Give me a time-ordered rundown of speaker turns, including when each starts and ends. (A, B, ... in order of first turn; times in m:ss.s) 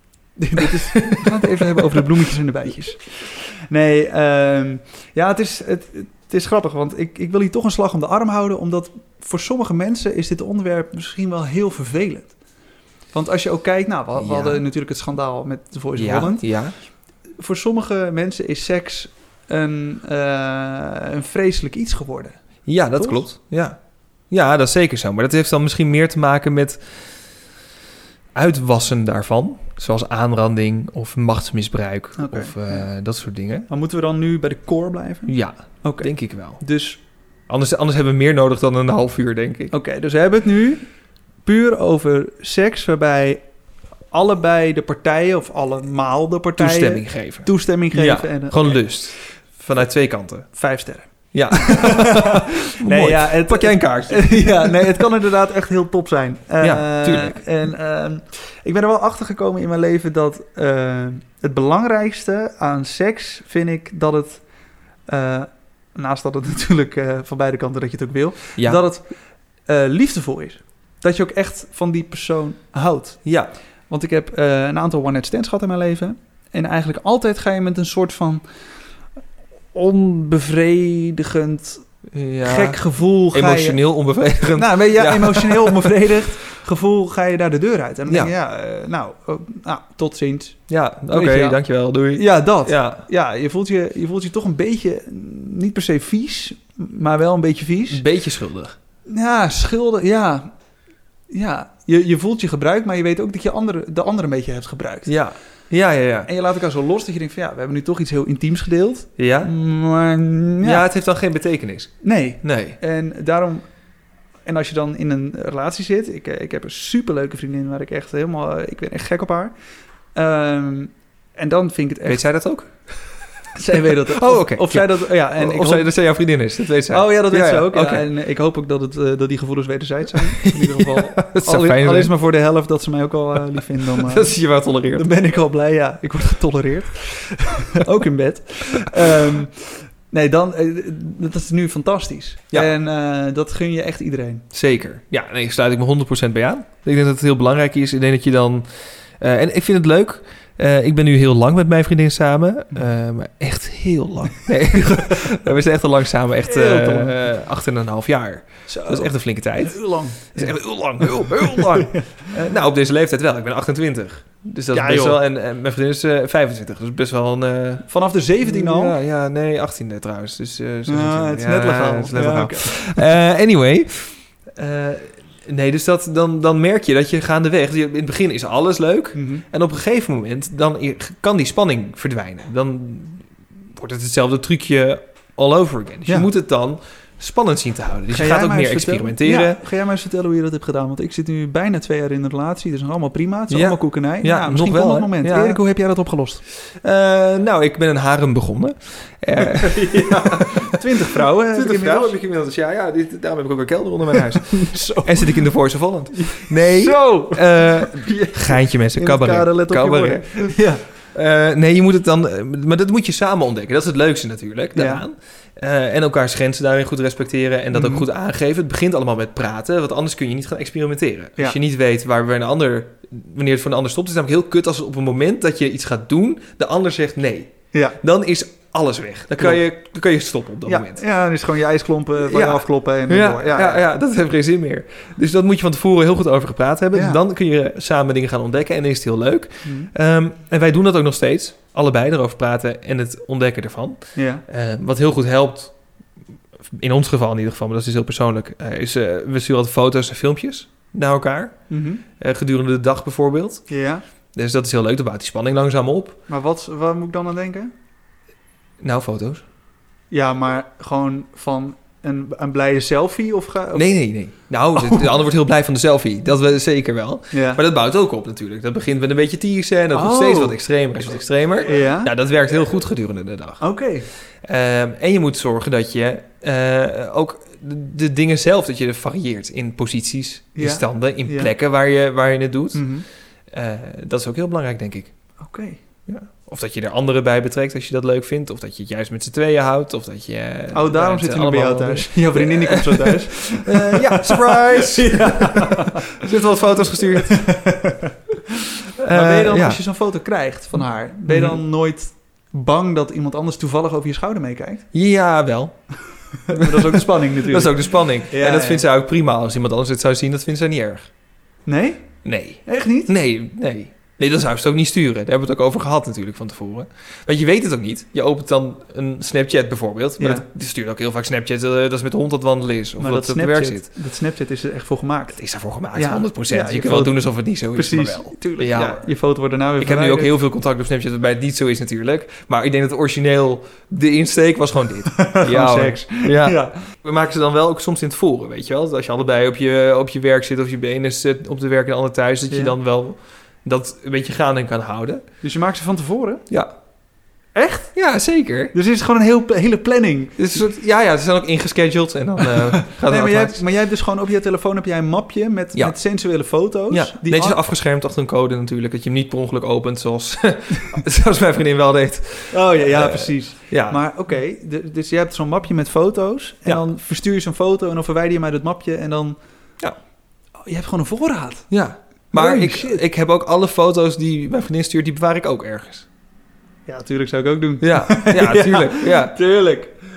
0:00.4-0:12.3 A
0:00.6-0:02.0 B
0:13.1-0:16.5 A
0:14.2-0:14.6 B
0:16.0-0:16.8 B
0:17.4-0:22.4 A
0:22.7-0:23.8 B
0:23.0-0:23.2 A
0:24.3-0:26.8 B
0:28.4-0:33.7 B
0:32.2-0:32.9 A
0:33.7-0:37.0 A
0:35.3-0:36.6 B
0:37.5-0:39.7 B
0:39.7-0:40.9 A
0:41.4-0:43.4 A
0:44.1-0:48.8 A
0:46.6-0:50.5 B
0:50.5-1:04.4 A
0:51.3-0:55.1 B
0:56.6-0:57.4 B
1:05.1-1:09.1 A
1:09.7-1:13.3 A
1:13.2-1:13.5 B
1:13.9-1:18.4 A
1:19.7-1:21.9 A
1:22.1-1:26.0 B
1:22.4-1:23.8 A
1:24.6-1:30.6 A
1:28.1-1:28.3 B
1:30.7-1:33.0 B
1:31.1-1:31.6 A
1:32.1-1:38.0 A
1:37.9-1:38.8 B
1:39.1-1:40.5 A
1:41.3-1:45.2 A
1:45.1-1:46.3 B
1:46.3-1:50.9 A
1:49.2-1:49.5 B
1:50.6-1:52.8 B
1:52.0-1:53.6 A
1:54.5-1:59.5 A
2:00.2-2:02.2 A
2:02.0-2:02.7 B
2:03.6-2:05.9 A
2:03.8-2:08.1 B
2:06.9-2:14.3 A
2:10.3-2:12.1 B
2:13.9-2:15.1 B
2:14.9-2:24.4 A
2:24.5-2:28.7 B
2:29.2-2:47.9 B
2:36.4-2:37.2 A
2:38.7-2:42.4 A
2:44.7-2:45.2 A
2:47.9-2:49.0 A
2:48.4-3:09.6 B
2:50.9-2:53.0 A
2:59.1-2:59.4 A
3:08.1-3:16.4 A
3:13.5-3:15.6 B
3:16.8-3:30.6 B
3:19.4-3:22.2 A
3:24.5-3:25.4 A
3:26.2-3:30.8 A
3:31.1-3:51.0 B
3:34.8-3:35.0 A
3:37.7-3:38.1 A
3:47.7-3:48.0 A
3:50.7-3:53.8 A
3:52.2-4:05.7 B
3:56.9-3:57.2 A
3:59.6-3:59.9 A
4:04.2-4:04.4 A
4:06.7-4:11.6 B
4:11.7-4:12.0 A
4:12.2-4:13.6 B
4:13.7-4:14.0 A
4:14.3-4:16.2 B
4:16.3-4:17.7 A
4:18.8-4:19.4 B
4:20.1-4:23.9 A
4:23.7-4:33.6 B
4:24.8-4:25.1 A
4:27.3-4:27.6 A
4:29.9-4:30.6 A
4:31.7-4:32.1 A
4:33.6-4:34.1 A
4:34.4-4:42.9 B
4:40.6-4:41.5 A
4:42.7-4:43.0 A
4:43.5-4:45.1 B
4:45.4-4:45.8 A
4:46.1-4:57.6 B
4:50.7-4:56.2 A
4:57.0-5:04.9 A
4:59.0-4:59.8 B
5:01.3-5:01.6 B
5:04.9-5:05.8 B
5:06.5-5:08.8 A
5:06.5-5:11.1 B
5:11.7-5:12.1 A
5:12.2-5:23.9 B
5:12.7-5:13.1 A
5:20.2-5:20.5 A
5:23.0-5:25.4 A
5:25.4-5:29.1 B
5:25.9-5:27.2 A
5:27.7-5:30.4 A
5:29.8-5:45.2 B
5:35.1-5:36.8 A
5:42.5-5:42.8 A
5:45.4-5:46.4 A
5:47.6-5:48.0 A
5:48.0-5:48.7 B
5:48.7-5:50.5 A
5:50.4-5:53.6 B
5:52.4-5:57.6 A
5:56.9-6:04.0 B
6:02.5-6:09.4 A
6:10.7-6:11.7 A
6:11.7-6:16.1 B
6:12.3-6:13.0 A
6:16.9-6:20.0 A
6:17.8-6:19.4 B